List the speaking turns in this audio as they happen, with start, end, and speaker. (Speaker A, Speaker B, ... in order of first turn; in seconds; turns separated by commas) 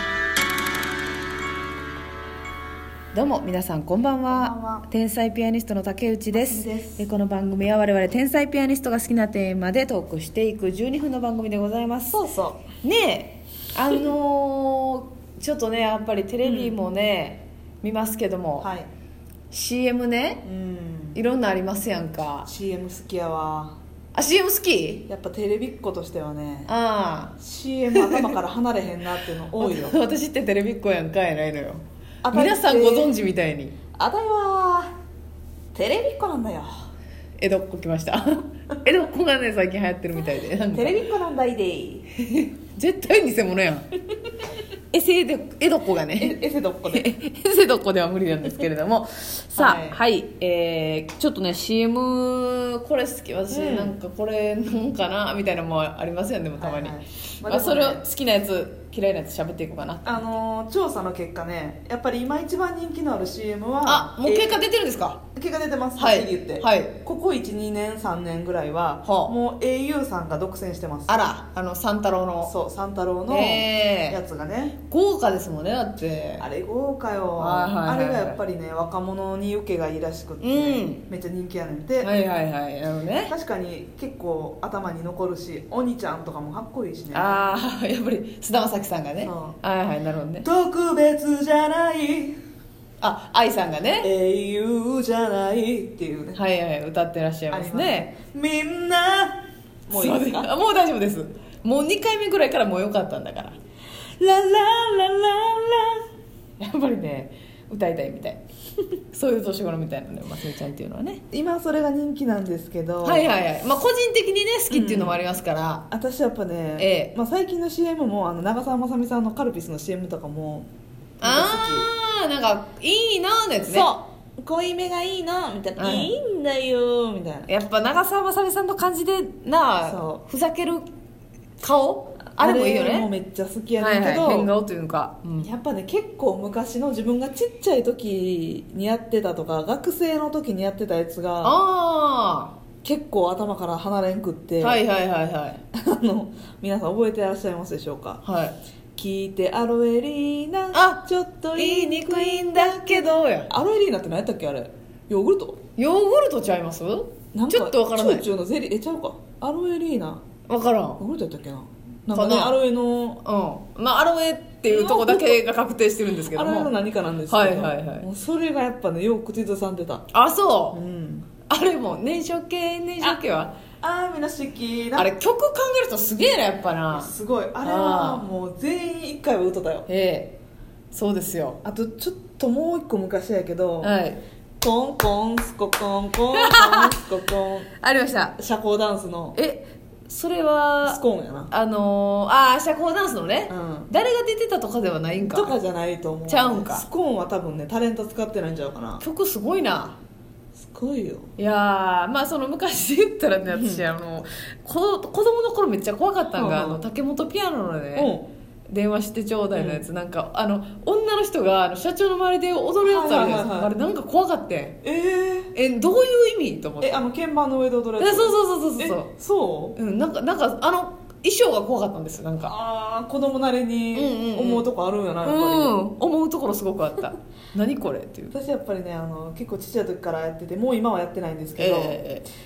Speaker A: 3.1-18.7, Speaker B: 4.3-4.9, Speaker B: 6.3-7.1, Speaker B: 12.1-12.7, Speaker B: 16.4-16.8, Speaker B: 18.6-18.9, Speaker A: 19.5-20.4, Speaker B: 20.4-21.2, Speaker A: 21.1-22.5, Speaker B: 22.4-23.8, Speaker A: 24.1-25.1, Speaker B: 25.1-26.7, Speaker A: 26.7-27.4, Speaker B: 27.4-30.0, Speaker A: 27.9-28.3, Speaker A: 29.6-33.8, Speaker B: 32.2-33.1, Speaker B: 34.0-34.9, Speaker B: 35.7-36.7, Speaker A: 37.4-41.0, Speaker B: 40.7-42.1, Speaker A: 42.2-43.9, Speaker A: 44.9-46.4, Speaker B: 46.2-47.1, Speaker A: 46.9-60.2, Speaker B: 49.6-50.0, Speaker B: 53.5-53.9, Speaker B: 56.6-58.0, Speaker B: 60.0-64.6, Speaker A: 63.8-65.2, Speaker B: 65.3-71.3, Speaker A: 66.0-67.0, Speaker A: 69.0-69.3, Speaker A: 71.1-72.5, Speaker B: 72.4-74.8, Speaker A: 73.3-74.2, Speaker A: 74.9-76.5, Speaker B: 76.4-82.1, Speaker A: 77.4-78.4, Speaker A: 80.4-81.0, Speaker A: 82.0-83.3, Speaker B: 83.3-87.5, Speaker A: 87.1-90.5, Speaker B: 89.2-89.6, Speaker B: 90.4-92.4, Speaker A: 93.0-94.1, Speaker B: 94.0-96.4, Speaker A: 96.3-98.1, Speaker B: 97.5-100.5, Speaker A: 99.9-103.6, Speaker B: 104.2-106.0, Speaker A: 106.6-108.4, Speaker A: 109.1-111.2, Speaker B: 111.3-113.3, Speaker A: 113.0-115.9, Speaker B: 114.7-115.2, Speaker B: 115.9-120.7, Speaker A: 116.8-117.1, Speaker A: 121.2-123.9, Speaker B: 121.2-121.9, Speaker B: 123.6-127.5, Speaker A: 125.8-126.1, Speaker A: 127.5-130.8, Speaker B: 129.8-130.2, Speaker A: 131.6-133.1, Speaker B: 132.4-134.5, Speaker A: 133.8-135.5, Speaker B: 135.4-141.6, Speaker A: 141.4-142.6, Speaker B: 142.8-144.8, Speaker A: 144.6-145.6, Speaker B: 145.7-148.2, Speaker A: 148.2-148.6, Speaker B: 148.9-155.6, Speaker A: 150.7-153.5, Speaker A: 155.8-158.3, Speaker B: 157.3-160.2, Speaker A: 160.5-161.0, Speaker B: 161.0-163.2, Speaker A: 162.1-162.6, Speaker A: 163.2-166.7, Speaker B: 164.7-165.4, Speaker B: 166.3-170.1, Speaker A: 167.3-168.1, Speaker A: 170.1-170.8, Speaker B: 170.7-171.3, Speaker A: 171.5-173.6, Speaker B: 173.8-175.1, Speaker A: 175.0-178.3, Speaker B: 176.9-179.9, Speaker A: 179.9-180.4, Speaker A: 180.9-181.6, Speaker B: 181.6-184.0, Speaker A: 183.8-184.2, Speaker B: 184.6-187.7, Speaker A: 186.3-187.0, Speaker A: 187.8-188.4, Speaker B: 188.4-189.4, Speaker A: 189.3-195.6, Speaker B: 190.8-191.5, Speaker B: 193.5-193.9, Speaker B: 195.3-199.0, Speaker A: 196.3-196.9, Speaker A: 199.0-200.0, Speaker B: 200.6-201.3, Speaker A: 201.4-208.1, Speaker B: 203.5-203.8, Speaker B: 206.4-206.8, Speaker B: 207.9-208.3, Speaker A: 208.7-214.8, Speaker B: 209.5-209.8, Speaker B: 212.8-213.7, Speaker B: 214.8-215.5, Speaker A: 215.5-217.1, Speaker B: 216.8-219.8, Speaker A: 218.0-219.1, Speaker A: 219.8-222.5, Speaker B: 222.4-225.8, Speaker A: 223.9-224.7, Speaker A: 225.2-228.3, Speaker B: 228.3-232.0, Speaker A: 231.6-232.3